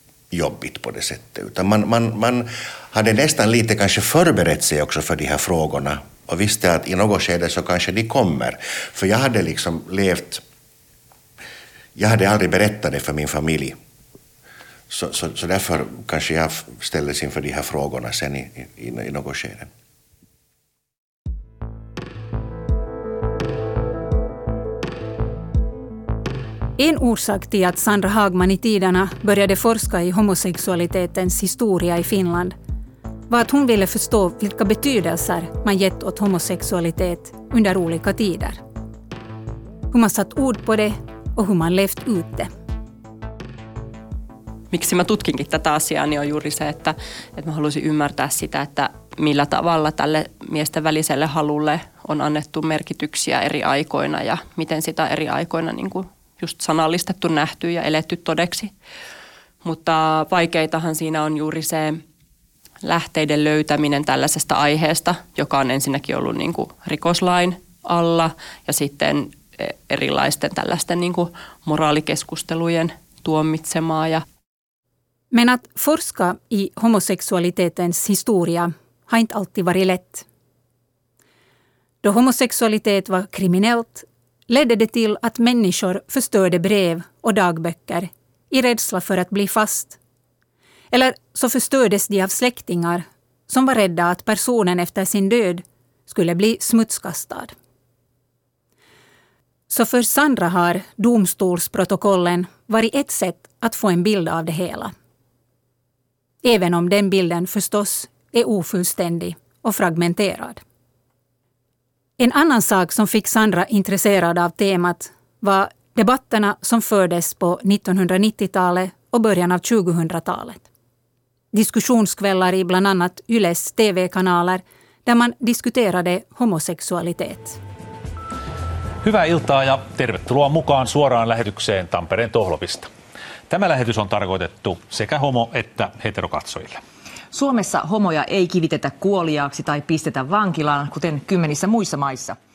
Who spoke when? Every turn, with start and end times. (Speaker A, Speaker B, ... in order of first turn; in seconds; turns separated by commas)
Speaker A: 0.3-10.4, Speaker A: 12.0-13.8, Speaker A: 14.9-19.7, Speaker B: 26.8-32.5, Speaker B: 33.3-38.6, Speaker B: 39.9-42.5, Speaker C: 44.7-58.7, Speaker C: 59.6-62.0, Speaker C: 62.8-74.2, Speaker B: 75.3-80.2, Speaker B: 82.0-90.0, Speaker B: 90.9-97.5, Speaker B: 99.7-104.9, Speaker B: 106.4-110.6, Speaker B: 112.2-120.7, Speaker B: 121.5-127.6, Speaker D: 129.0-132.9, Speaker D: 133.5-136.8, Speaker E: 137.3-142.4